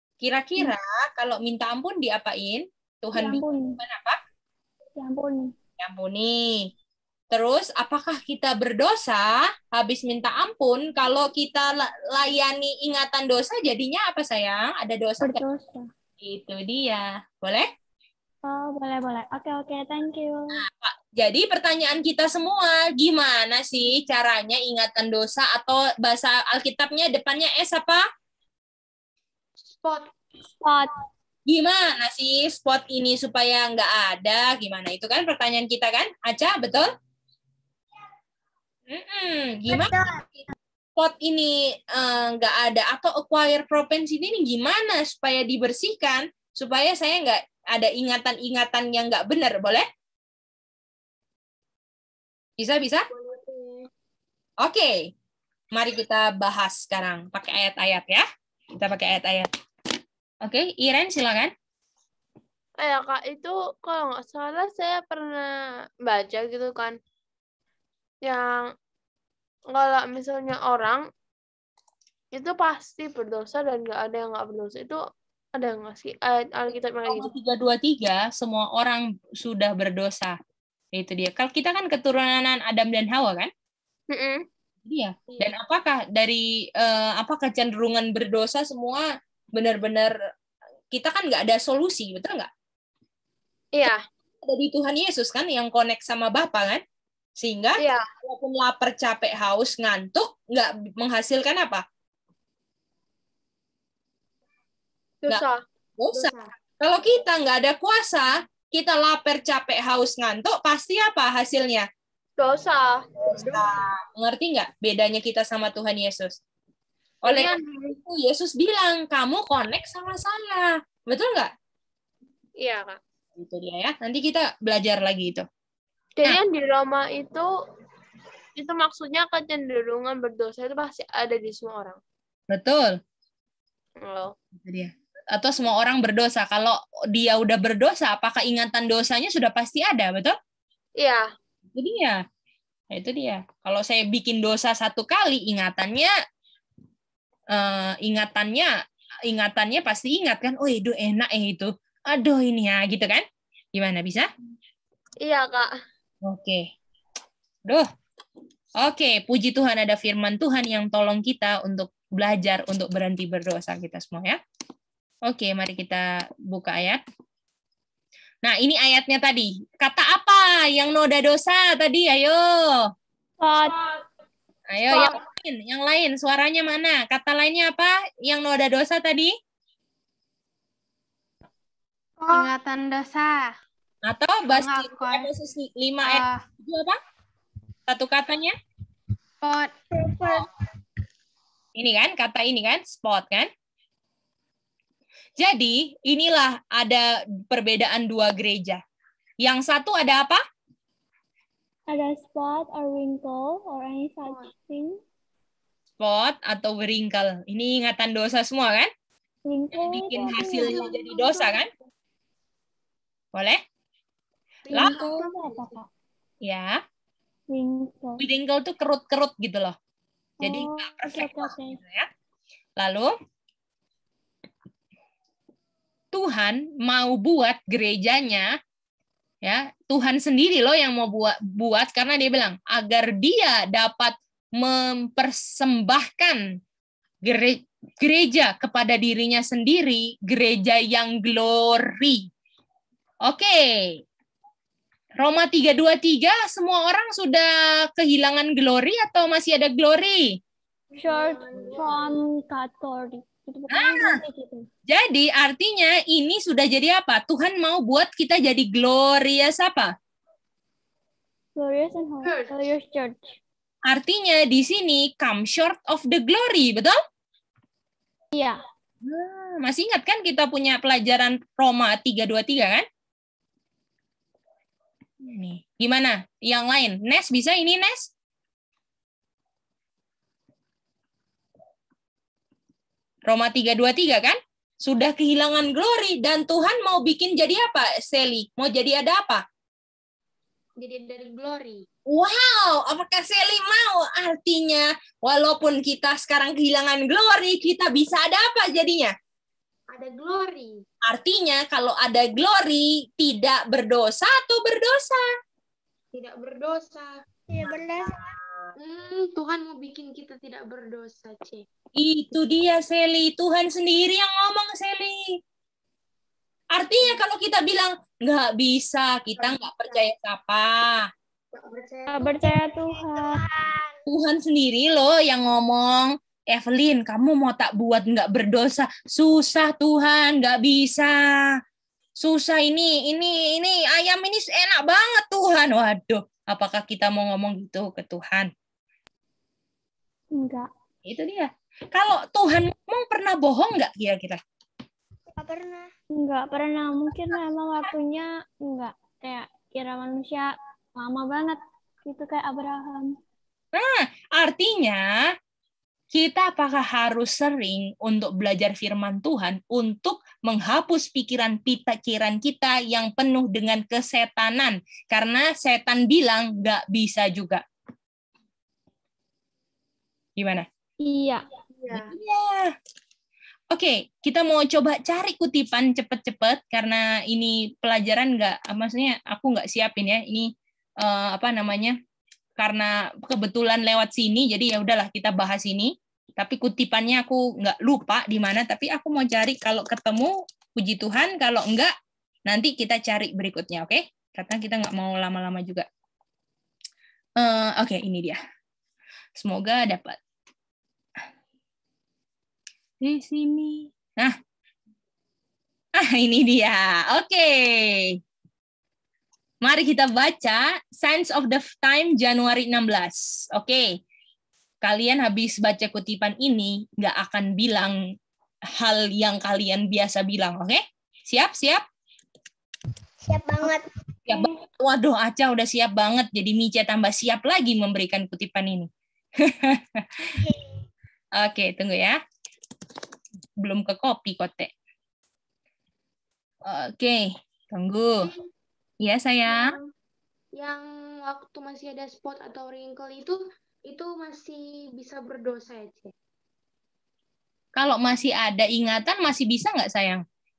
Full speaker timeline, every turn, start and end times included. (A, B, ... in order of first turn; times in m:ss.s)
0:00.2-0:04.2 A
0:03.1-0:03.8 B
0:05.0-0:05.5 B
0:05.8-0:06.7 A
0:07.3-0:15.4 A
0:15.2-0:15.9 B
0:16.2-0:17.6 A
0:18.4-0:20.6 B
0:20.6-0:28.0 A
0:29.7-0:30.1 C
0:30.5-0:30.9 B
0:31.5-0:36.9 A
0:38.9-0:39.9 A
0:39.7-0:40.2 D
0:41.0-0:49.8 A
0:52.6-0:53.1 A
0:53.1-0:53.8 C
0:54.6-0:55.1 A
0:55.7-0:58.2 A
0:58.8-0:59.4 A
1:00.4-1:01.5 A
1:02.8-1:07.0 E
1:08.2-1:08.6 E
1:09.7-1:11.0 E
1:12.3-1:15.0 E
1:15.6-1:17.3 E
1:17.1-1:20.4 A
1:20.9-1:23.5 A
1:24.1-1:24.4 E
1:24.9-1:30.1 A
1:30.9-1:32.5 A
1:34.4-1:36.8 A
1:37.4-1:41.8 A
1:37.8-1:38.0 E
1:45.2-1:45.6 E
1:46.0-1:51.9 A
1:46.1-1:46.5 C
1:52.4-1:53.1 E
1:53.4-1:53.7 C
1:53.4-1:56.3 A
1:57.2-2:01.5 A
1:57.2-1:57.6 E
2:02.6-2:03.0 E
2:03.4-2:05.4 A
2:06.2-2:07.5 E
2:08.6-2:12.0 E
2:12.5-2:13.0 A
2:14.0-2:14.3 E
2:14.6-2:20.3 A
2:21.0-2:21.2 E
2:21.7-2:22.2 A
2:22.9-2:26.1 A
2:27.5-2:28.7 A
2:29.3-2:33.2 A
2:33.7-2:34.3 A
2:35.2-2:35.7 E
2:36.2-2:36.7 A
2:38.8-2:44.4 A
2:45.3-2:47.0 A
2:48.4-2:52.8 A
2:53.4-2:53.9 B
2:54.7-2:59.3 A
3:02.2-3:03.4 F
3:04.0-3:07.0 A
3:04.5-3:05.3 F
3:06.0-3:06.4 F
3:07.9-3:08.5 A
3:09.4-3:09.7 F
3:10.0-3:10.4 D
3:11.8-3:13.5 A
3:15.4-3:18.8 A
3:19.4-3:20.4 A
3:21.9-3:25.0 B
3:26.0-3:28.9 A
3:29.4-3:31.0 B
3:29.7-3:31.7 A
3:30.1-3:31.7 C
3:33.3-3:33.6 A
3:34.7-3:35.7 C
3:34.7-3:35.0 A
3:34.7-3:35.8 B
3:36.4-3:36.8 A
3:37.5-3:38.2 B
3:38.2-3:39.7 A
3:40.4-3:41.8 B
3:40.4-3:42.1 A
3:42.8-3:43.1 A
3:46.1-3:48.5 A
3:49.4-3:56.4 A
3:57.2-4:02.3 A
4:03.2-4:03.7 A
4:05.2-4:10.4 A
4:11.0-4:14.7 B
4:11.0-4:11.9 C
4:13.7-4:14.1 A
4:14.9-4:19.9 A
4:21.6-4:23.3 B
4:22.2-4:22.7 C
4:23.9-4:26.9 A
4:28.3-4:28.6 B
4:29.0-4:32.8 A
4:35.2-4:38.1 A
4:43.3-4:49.4 A
4:50.8-4:51.8 C
4:52.1-4:59.1 A
4:59.9-5:00.8 C
5:01.1-5:05.2 A
5:06.1-5:07.1 C
5:07.5-5:08.1 D
5:08.8-5:11.6 C
5:12.0-5:15.4 A
5:16.7-5:21.1 A
5:19.4-5:20.0 C
5:21.6-5:22.1 C
5:22.0-5:24.0 D
5:22.1-5:23.4 B
5:24.1-5:31.2 A
5:32.2-5:38.5 A
5:40.3-5:40.7 B
5:41.0-5:44.4 A
5:45.3-5:45.9 D
5:46.2-5:53.2 B
5:53.7-5:55.3 A
5:56.1-6:07.6 A
6:10.4-6:10.6 A
6:11.0-6:11.4 B
6:11.8-6:12.1 C
6:11.9-6:12.7 A
6:13.7-6:22.0 A
6:22.6-6:31.9 A
6:32.4-6:35.8 A
6:37.4-6:38.4 A
6:39.4-6:40.2 A
6:43.0-6:44.4 A
6:46.0-6:48.2 A
6:49.6-6:53.9 A
6:54.8-6:58.0 A
6:58.8-7:01.8 A
7:03.2-7:03.8 D
7:04.3-7:08.9 A
7:09.4-7:10.2 A
7:10.4-7:10.7 D
7:11.4-7:12.2 A
7:13.6-7:14.7 A
7:16.6-7:18.3 A
7:19.0-7:19.7 A
7:20.6-7:26.1 C
7:27.8-7:30.2 A